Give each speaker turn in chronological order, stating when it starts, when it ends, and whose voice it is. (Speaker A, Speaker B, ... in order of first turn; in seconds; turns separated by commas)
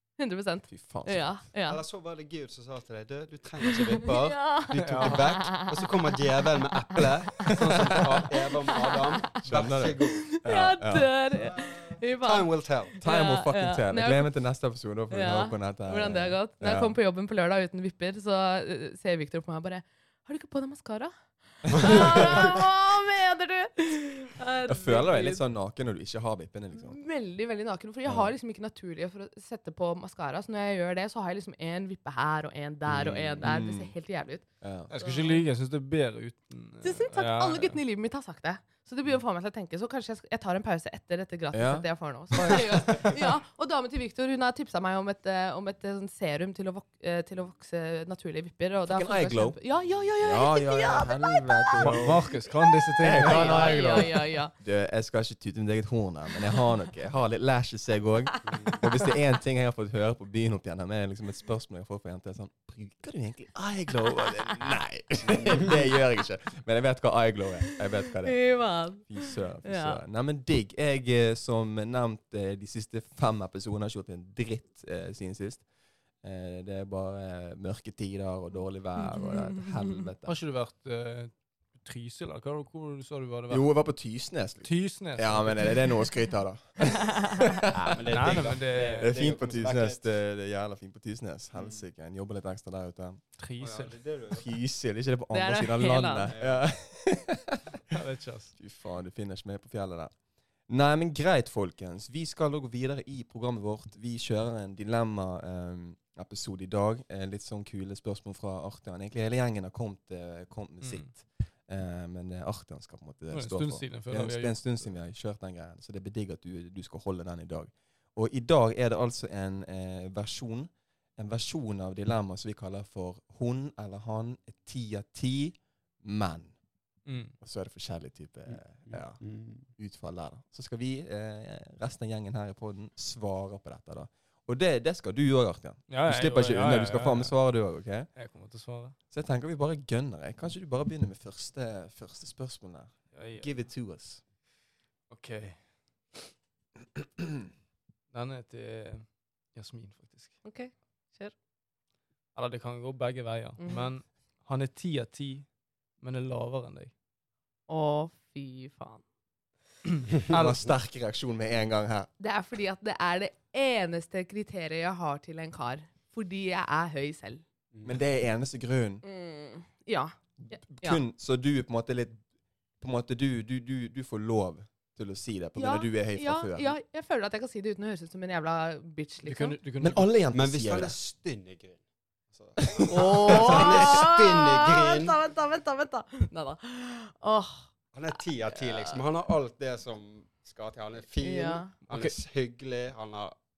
Speaker A: 0.2-1.8, Speaker B: 0.7-1.4, Speaker C: 1.7-10.3, Speaker A: 3.9-5.9, Speaker D: 4.8-5.3, Speaker B: 7.4-8.3, Speaker A: 8.3-9.3, Speaker B: 9.4-11.1, Speaker A: 10.3-14.3, Speaker C: 11.6-13.0, Speaker B: 13.0-17.0, Speaker A: 15.1-25.4, Speaker B: 21.7-22.4, Speaker C: 21.8-22.6, Speaker B: 24.7-27.0, Speaker A: 26.7-34.5, Speaker B: 28.1-28.3, Speaker B: 32.9-33.9, Speaker B: 34.6-34.9, Speaker D: 34.9-37.8, Speaker A: 35.0-35.4, Speaker A: 36.8-52.5, Speaker B: 41.5-43.2, Speaker B: 48.9-49.6, Speaker B: 50.2-52.4, Speaker D: 51.8-54.1, Speaker B: 53.0-75.7, Speaker A: 53.1-54.5, Speaker A: 58.3-58.9, Speaker C: 58.5-58.8, Speaker A: 68.2-70.0, Speaker B: 76.2-80.3, Speaker A: 79.0-79.6, Speaker D: 80.2-83.7, Speaker B: 83.5-93.2, Speaker D: 84.6-85.9, Speaker C: 87.7-90.0, Speaker D: 88.1-89.2, Speaker C: 91.6-91.8, Speaker D: 93.4-94.0, Speaker C: 93.6-94.5, Speaker B: 94.3-97.8, Speaker A: 95.3-96.3, Speaker C: 96.3-96.6, Speaker D: 97.9-98.5, Speaker B: 98.6-100.1, Speaker B: 100.7-126.5, Speaker D: 110.8-111.1, Speaker D: 113.3-114.8, Speaker D: 127.1-127.3, Speaker B: 127.4-138.1, Speaker C: 128.5-129.7, Speaker D: 135.9-137.4, Speaker D: 138.2-138.9, Speaker B: 139.1-144.2, Speaker D: 143.1-143.5, Speaker D: 145.1-146.1, Speaker D: 148.1-150.4, Speaker A: 150.4-151.3, Speaker D: 152.3-155.5, Speaker A: 153.6-153.9, Speaker D: 156.0-156.9, Speaker A: 157.7-159.0, Speaker D: 159.9-160.6, Speaker B: 160.3-162.1, Speaker A: 162.2-167.4, Speaker C: 167.7-168.0, Speaker B: 167.8-169.0, Speaker A: 169.0-171.0, Speaker B: 170.4-172.2, Speaker B: 172.8-176.7, Speaker A: 175.6-179.6, Speaker D: 179.2-180.1, Speaker B: 179.8-180.9, Speaker C: 180.3-185.2, Speaker B: 182.7-184.1, Speaker A: 182.9-187.7, Speaker C: 187.9-193.4, Speaker A: 188.6-189.0, Speaker A: 191.2-191.7, Speaker D: 191.9-192.2